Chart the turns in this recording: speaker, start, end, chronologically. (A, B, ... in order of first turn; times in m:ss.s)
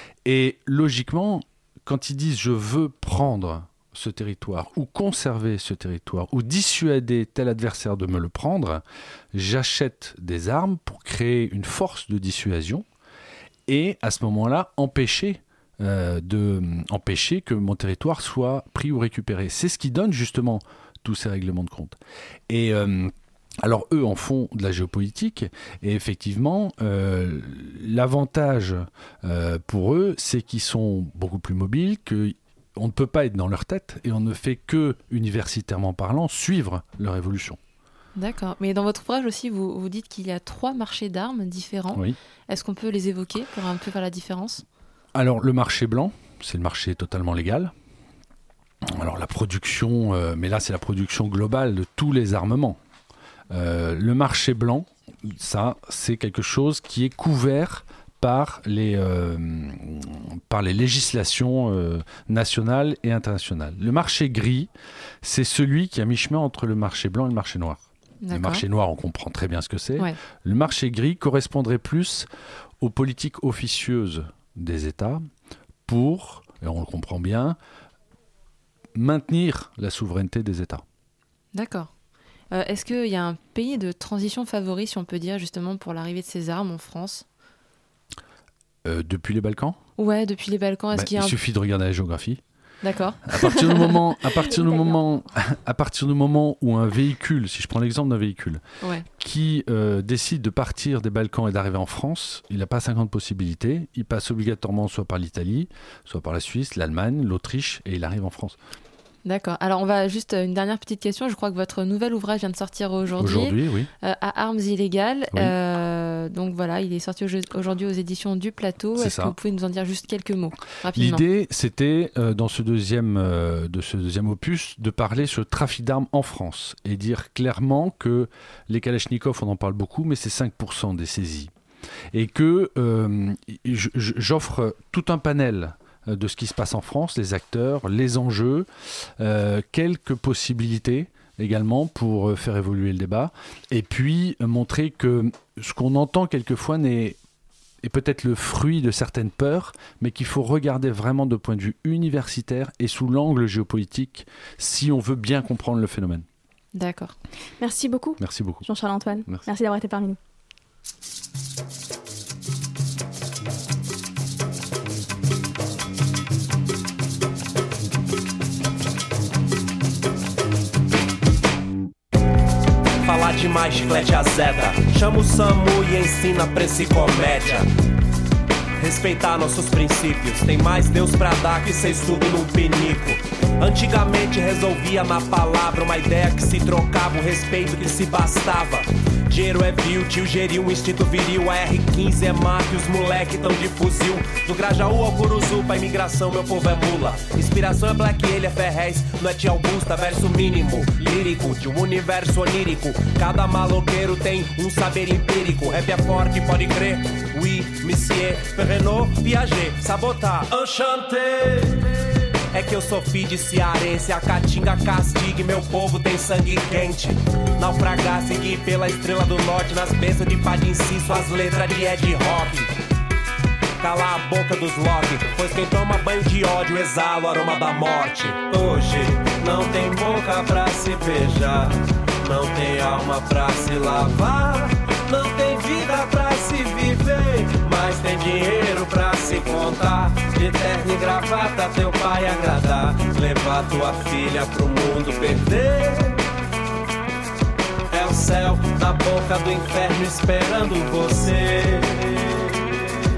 0:00.2-0:12.8 A
0:13.7-0:22.0 A
0:22.5-0:37.6 A
0:38.2-0:44.6 B
0:45.1-0:47.7 A
0:48.8-0:52.8 A
0:53.5-1:04.7 A
1:05.2-1:12.3 A
1:08.2-1:08.6 B
1:12.8-1:15.2 A
1:15.9-1:17.6 A
1:18.9-1:20.8 A
1:21.5-1:21.9 B
1:22.5-1:27.2 B
1:28.8-1:29.8 A
1:30.0-1:31.4 B
1:30.9-1:32.4 A
1:32.8-1:34.0 B
1:33.3-1:38.6 A
1:39.2-1:48.6 A
1:49.2-2:01.2 B
1:53.2-1:53.9 A
1:59.0-1:59.4 A
2:00.9-2:11.5 A
2:12.1-2:27.2 A
2:27.8-2:36.3 A
2:36.8-2:37.1 B
2:37.6-2:40.2 C
2:38.2-2:38.6 A
2:53.0-2:57.7 D
2:58.8-3:42.7 D
3:43.8-4:06.3 D
4:07.9-4:12.6 D